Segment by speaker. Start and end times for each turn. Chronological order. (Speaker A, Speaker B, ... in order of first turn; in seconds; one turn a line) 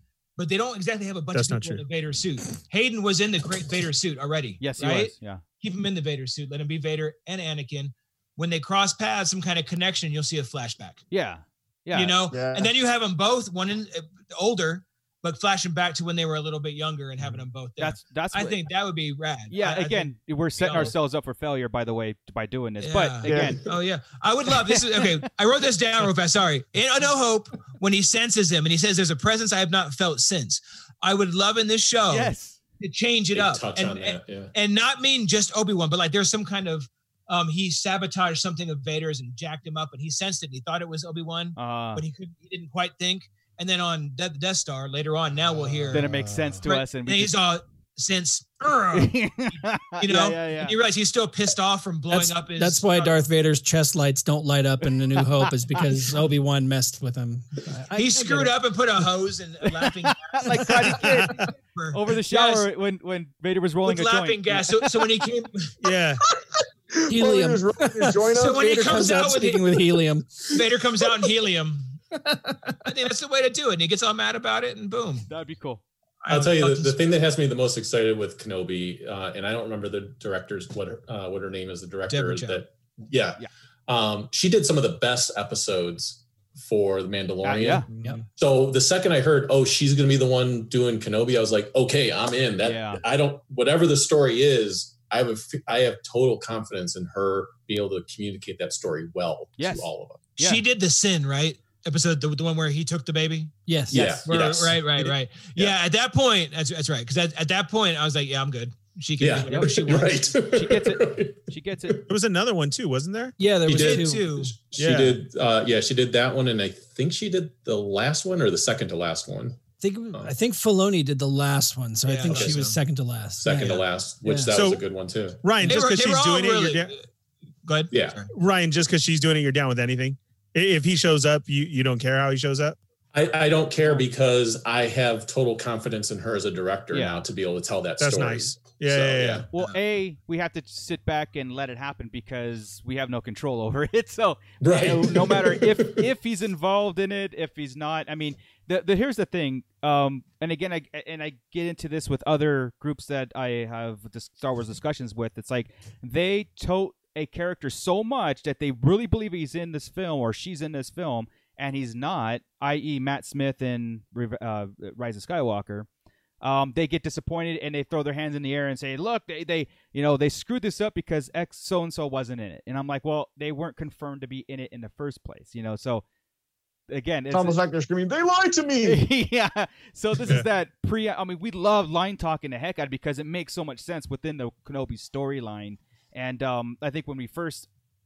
Speaker A: 0.4-11.0
Speaker B: 1.3-1.8
Speaker C: 4.6-5.4
Speaker C: 11.1-12.2
Speaker A: 11.9-20.9
Speaker D: 12.3-12.7
Speaker C: 17.8-18.7
Speaker C: 19.5-23.6
Speaker A: 22.8-53.2
Speaker D: 23.2-23.6
Speaker C: 24.6-25.1
Speaker C: 32.1-32.6
Speaker E: 33.3-34.5
Speaker C: 41.6-42.0
Speaker C: 45.9-47.4
Speaker C: 48.9-50.8
Speaker F: 52.1-58.5
Speaker C: 54.8-55.9
Speaker A: 57.9-62.7
Speaker C: 59.8-64.7
Speaker B: 61.1-61.5
Speaker A: 63.8-65.7
Speaker B: 65.8-66.2
Speaker D: 66.9-69.2
Speaker F: 67.1-70.5
Speaker A: 68.4-69.8
Speaker A: 70.5-72.0
Speaker F: 72.2-72.7
Speaker A: 72.8-75.3
Speaker C: 75.3-75.8
Speaker A: 76.2-77.0
Speaker E: 76.3-100.2
Speaker A: 82.1-82.6
Speaker C: 87.4-87.9
Speaker B: 87.9-88.2
Speaker C: 92.6-93.0
Speaker C: 99.6-100.6
Speaker A: 100.4-110.2
Speaker F: 103.7-104.2
Speaker E: 103.9-105.8
Speaker E: 109.2-112.0
Speaker C: 109.5-112.0
Speaker B: 112.1-113.3
Speaker F: 113.4-114.3
Speaker E: 113.7-119.6
Speaker A: 113.7-114.5
Speaker B: 114.8-115.2
Speaker F: 119.8-124.5
Speaker A: 122.0-122.8
Speaker E: 122.3-122.6
Speaker E: 123.4-125.4
Speaker B: 124.5-124.8
Speaker B: 125.4-126.9
Speaker A: 125.6-127.0
Speaker A: 127.7-128.3
Speaker E: 127.9-128.2
Speaker B: 128.3-132.8
Speaker E: 133.1-139.5
Speaker C: 136.9-137.2
Speaker B: 138.0-139.5
Speaker C: 139.5-165.9
Speaker E: 144.6-146.1
Speaker C: 166.4-176.0
Speaker C: 176.9-177.6
Speaker D: 177.3-179.0
Speaker C: 178.8-187.7